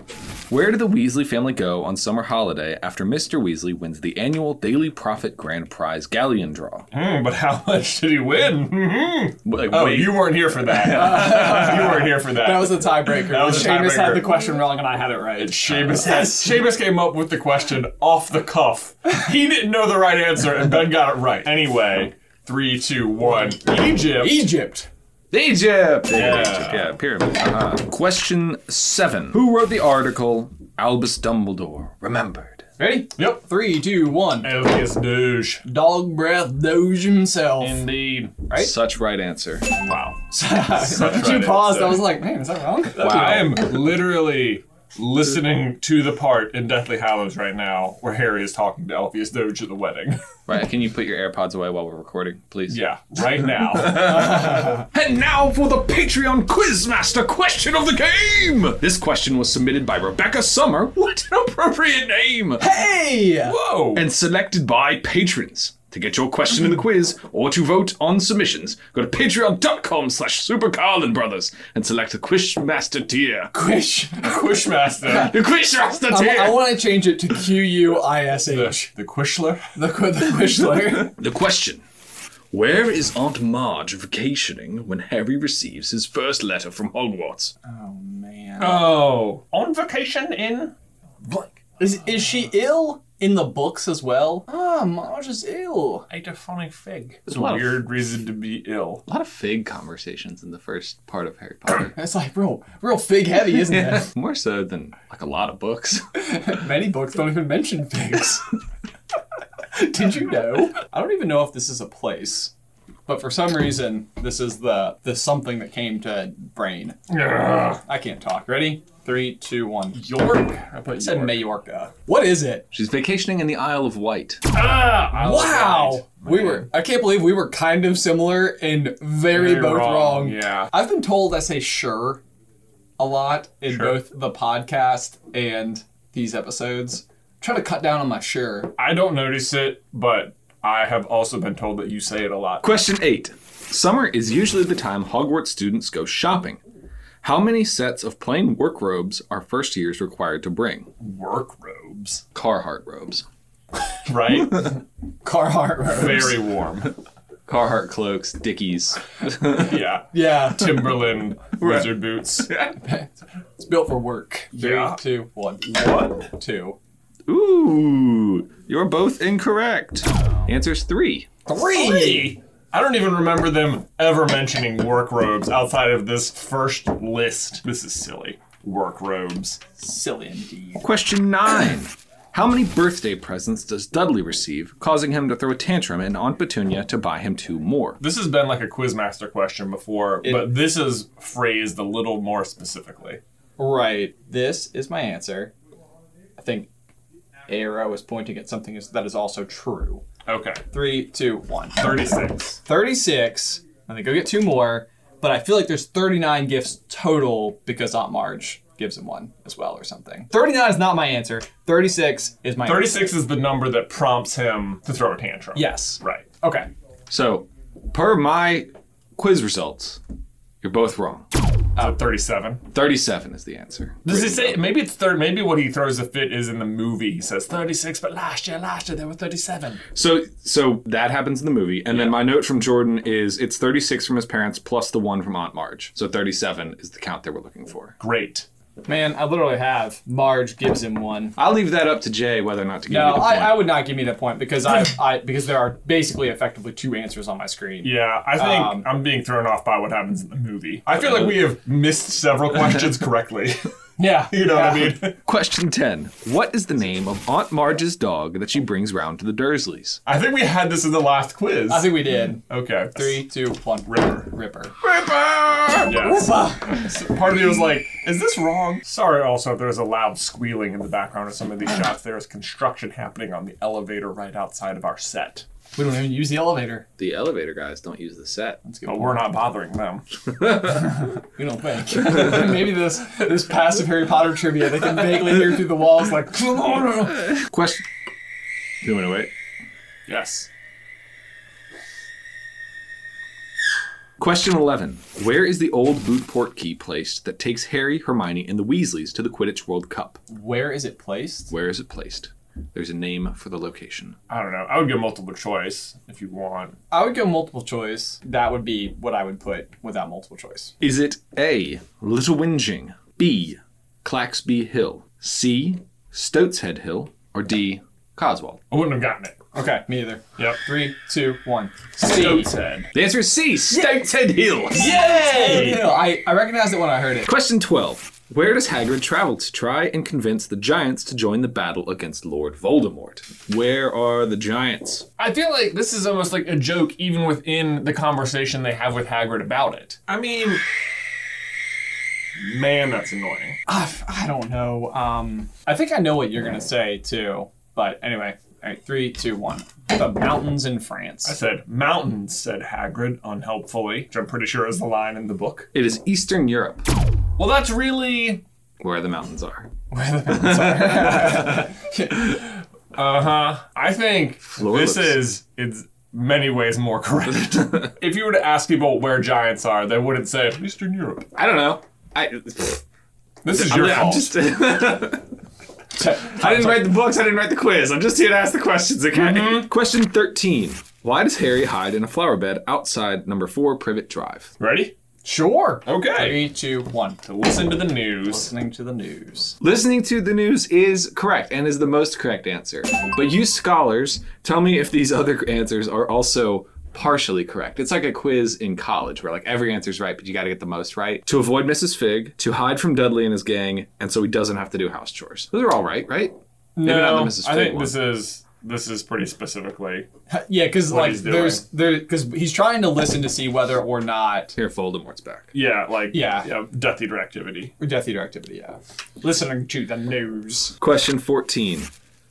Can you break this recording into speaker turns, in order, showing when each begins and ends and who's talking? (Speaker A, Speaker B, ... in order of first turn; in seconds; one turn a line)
Speaker A: 0.5-6.9
Speaker B: 6.9-14.3
Speaker A: 9.4-11.7
Speaker C: 10.9-16.5
Speaker B: 15.4-24.5
Speaker C: 24.1-24.9
Speaker A: 25.3-32.7
Speaker B: 26.1-27.0
Speaker C: 32.8-34.5
Speaker B: 33.1-33.4
Speaker B: 34.4-35.6
Speaker C: 35.6-37.9
Speaker B: 37.6-38.4
Speaker C: 38.5-38.7
Speaker A: 38.5-39.7
Speaker B: 39.8-42.1
Speaker C: 40.3-43.6
Speaker A: 43.0-43.5
Speaker B: 43.0-50.2
Speaker A: 50.5-52.8
Speaker B: 52.7-54.2
Speaker A: 53.7-62.7
Speaker C: 53.9-54.9
Speaker C: 62.6-63.5
Speaker B: 63.4-64.0
Speaker A: 63.9-73.5
Speaker C: 73.5-74.5
Speaker B: 74.2-75.3
Speaker C: 75.0-75.3
Speaker A: 75.1-76.8
Speaker C: 76.1-78.9
Speaker B: 78.5-79.7
Speaker C: 79.8-81.2
Speaker A: 81.0-81.8
Speaker A: 82.5-87.5
Speaker C: 87.6-88.9
Speaker B: 88.6-91.5
Speaker C: 91.8-96.1
Speaker B: 96.1-99.0
Speaker A: 97.3-97.8
Speaker A: 99.1-101.9
Speaker C: 101.7-104.1
Speaker A: 103.5-106.1
Speaker C: 106.1-108.5
Speaker C: 109.7-112.5
Speaker C: 113.1-117.0
Speaker B: 117.1-117.8
Speaker C: 117.8-120.1
Speaker B: 119.9-121.4
Speaker C: 120.9-122.6
Speaker A: 122.7-124.4
Speaker B: 124.5-126.7
Speaker C: 125.1-132.2
Speaker B: 129.3-130.7
Speaker C: 133.0-138.7
Speaker B: 133.7-134.0
Speaker B: 138.8-142.7
Speaker A: 142.6-146.6
Speaker A: 147.2-150.9
Speaker B: 151.0-152.2
Speaker A: 152.3-153.2
Speaker B: 154.0-154.8
Speaker C: 155.2-156.4
Speaker B: 155.9-156.9
Speaker A: 157.5-159.8
Speaker B: 159.6-162.5
Speaker C: 160.1-160.9
Speaker A: 161.6-162.8
Speaker C: 162.8-166.8
Speaker B: 164.5-165.0
Speaker B: 165.7-166.3
Speaker A: 167.3-171.3
Speaker C: 171.4-172.3
Speaker B: 171.5-179.6
Speaker C: 179.8-180.9
Speaker A: 180.8-188.0
Speaker B: 188.0-193.2
Speaker C: 190.2-190.5
Speaker C: 193.6-195.5
Speaker C: 196.4-196.7
Speaker C: 197.5-200.0
Speaker B: 200.2-200.6
Speaker C: 200.7-213.1
Speaker B: 201.8-202.6
Speaker B: 212.6-216.2
Speaker C: 215.5-216.7
Speaker A: 217.1-220.0
Speaker A: 220.6-221.3
Speaker B: 221.8-222.6
Speaker A: 222.7-224.6
Speaker B: 224.0-229.8
Speaker A: 229.9-237.9
Speaker B: 231.9-232.2
Speaker B: 238.0-238.4
Speaker C: 238.8-241.3
Speaker A: 241.3-243.7
Speaker C: 242.9-248.9
Speaker B: 247.8-253.7
Speaker A: 251.0-251.4
Speaker C: 254.0-255.0
Speaker B: 254.3-255.2
Speaker A: 255.2-260.0
Speaker B: 260.1-263.2
Speaker C: 261.7-262.4
Speaker C: 262.9-264.8
Speaker B: 263.9-264.2
Speaker A: 264.8-265.9
Speaker B: 265.8-275.4
Speaker C: 265.9-266.9
Speaker C: 275.8-276.9
Speaker A: 277.0-278.6
Speaker C: 278.6-279.4
Speaker B: 278.8-280.0
Speaker A: 280.4-280.9
Speaker C: 280.6-287.3
Speaker A: 282.0-282.4
Speaker A: 287.1-287.8
Speaker A: 288.8-289.3
Speaker B: 290.1-290.5
Speaker A: 294.2-300.2
Speaker C: 300.3-301.5
Speaker A: 301.5-304.2
Speaker B: 304.3-306.8
Speaker C: 306.9-310.7
Speaker A: 310.8-318.6
Speaker B: 318.7-319.4
Speaker C: 319.5-322.5
Speaker B: 322.0-322.9
Speaker A: 322.9-325.0
Speaker C: 323.7-324.0
Speaker B: 324.7-325.9
Speaker C: 324.8-327.3
Speaker A: 327.2-335.1
Speaker B: 335.2-340.6
Speaker B: 342.4-343.6
Speaker C: 343.7-351.4
Speaker B: 351.2-355.7
Speaker A: 355.7-356.8
Speaker B: 357.4-358.4
Speaker A: 358.8-359.7
Speaker C: 359.9-362.5
Speaker A: 360.3-361.7
Speaker B: 362.9-371.3
Speaker A: 364.4-365.2
Speaker A: 371.3-372.8
Speaker B: 373.4-374.3
Speaker A: 373.5-375.3
Speaker C: 375.9-377.0
Speaker A: 376.2-384.5
Speaker B: 379.1-379.7
Speaker B: 384.6-384.9
Speaker C: 385.2-387.2
Speaker B: 385.9-386.4
Speaker B: 387.2-388.5
Speaker C: 388.2-389.6
Speaker A: 389.6-407.9
Speaker B: 406.8-410.1
Speaker C: 410.3-414.6
Speaker B: 410.9-411.6
Speaker A: 414.5-415.5
Speaker B: 415.5-417.7
Speaker C: 416.1-416.5
Speaker C: 417.8-420.8
Speaker A: 420.8-421.9